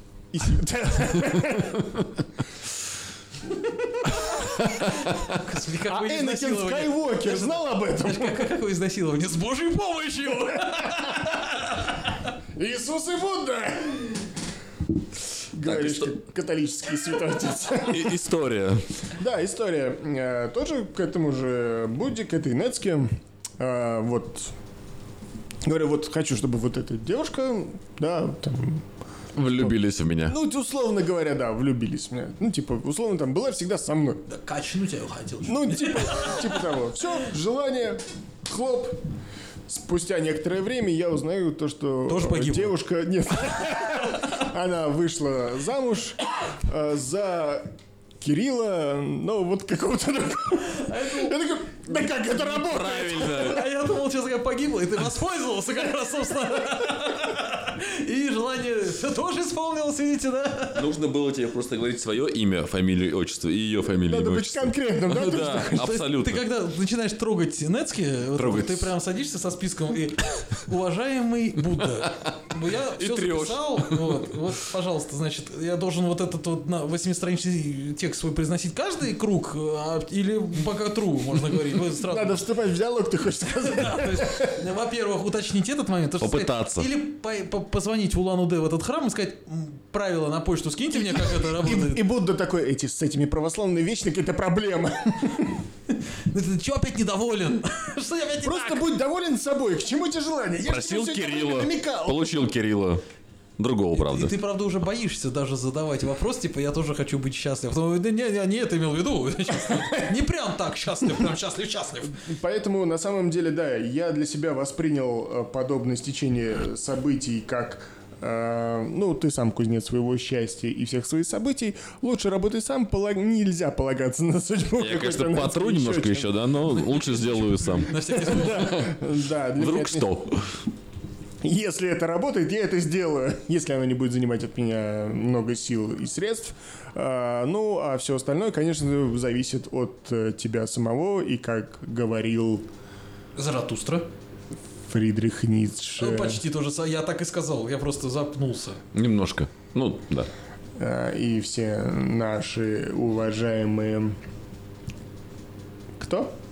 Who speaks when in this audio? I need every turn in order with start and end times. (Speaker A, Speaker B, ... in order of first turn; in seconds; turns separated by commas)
Speaker A: 0.3-2.0, Speaker B: 3.8-12.3, Speaker A: 5.9-8.6, Speaker A: 12.6-14.3, Speaker A: 15.5-18.2, Speaker C: 15.6-16.1, Speaker C: 17.8-18.8, Speaker A: 19.1-24.5, Speaker A: 25.6-28.8, Speaker C: 29.3-30.4, Speaker A: 30.3-34.2, Speaker B: 34.3-36.6, Speaker A: 35.4-39.0, Speaker A: 39.7-53.5, Speaker B: 42.0-42.8, Speaker B: 50.6-51.4, Speaker C: 52.3-53.7, Speaker B: 53.0-60.9, Speaker C: 60.7-66.5, Speaker A: 64.1-65.9, Speaker B: 65.6-82.4, Speaker C: 68.3-68.9, Speaker C: 72.9-74.3, Speaker A: 82.0-84.5, Speaker B: 83.6-92.0, Speaker C: 86.2-86.9, Speaker A: 90.9-95.6, Speaker B: 96.3-98.8, Speaker A: 98.4-102.4, Speaker C: 100.7-103.0, Speaker C: 103.6-104.3, Speaker B: 103.9-112.2, Speaker A: 112.1-126.8, Speaker C: 124.8-127.9, Speaker B: 127.8-128.9, Speaker A: 128.0-130.1, Speaker C: 128.5-128.9, Speaker C: 129.6-130.5, Speaker A: 131.4-142.6, Speaker B: 143.3-144.1, Speaker A: 144.9-146.4, Speaker B: 146.0-148.8, Speaker C: 148.9-150.3, Speaker A: 150.8-154.2, Speaker A: 156.0-156.3